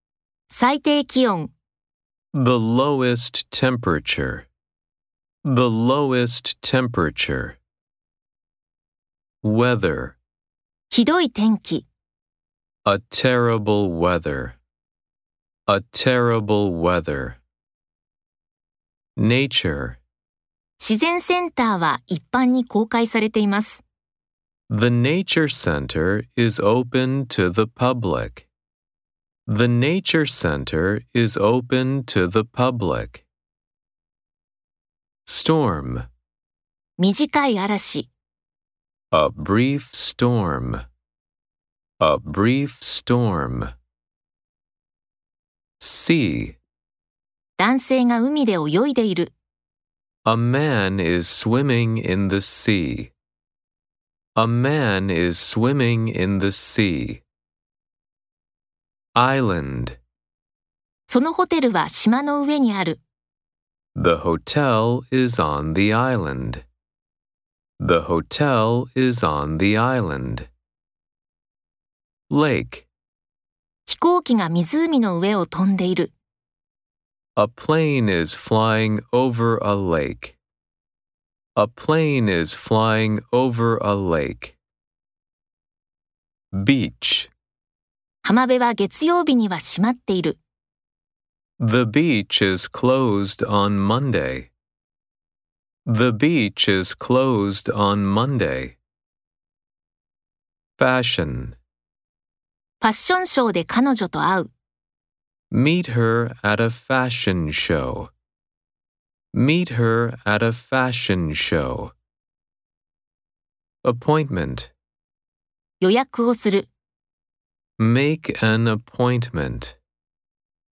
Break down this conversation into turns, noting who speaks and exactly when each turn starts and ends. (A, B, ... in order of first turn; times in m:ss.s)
0:00.5-0:01.5 A
0:02.3-0:04.5 B
0:05.4-0:07.6 B
0:09.4-0:10.2 B
0:10.9-0:11.9 A
0:12.8-0:14.6 B
0:15.7-0:17.4 B
0:19.2-0:20.0 B
0:20.8-0:23.8 A
0:24.7-0:28.5 B
0:29.5-0:33.3 B
0:35.3-0:36.1 B
0:37.0-0:38.1 A
0:39.1-0:40.8 B
0:42.0-0:43.7 B
0:45.8-0:46.6 B
0:47.6-0:49.3 A
0:50.2-0:53.1 B
0:54.4-0:57.2 B
0:59.2-1:00.0 B
1:01.1-1:03.0 A
1:04.0-1:06.6 B
1:07.8-1:10.5 B
1:12.3-1:12.9 B
1:13.9-1:16.1 A
1:17.4-1:20.4 B
1:21.6-1:24.6 B
1:26.5-1:27.3 B
1:28.2-1:30.4 A
1:31.6-1:34.5 B
1:35.9-1:38.8 B
1:40.8-1:41.6 B
1:42.8-1:44.5 A
1:45.5-1:48.1 B
1:49.3-1:51.9 B
1:53.8-1:54.7 B
1:55.8-1:56.7 A
1:57.8-1:59.8 B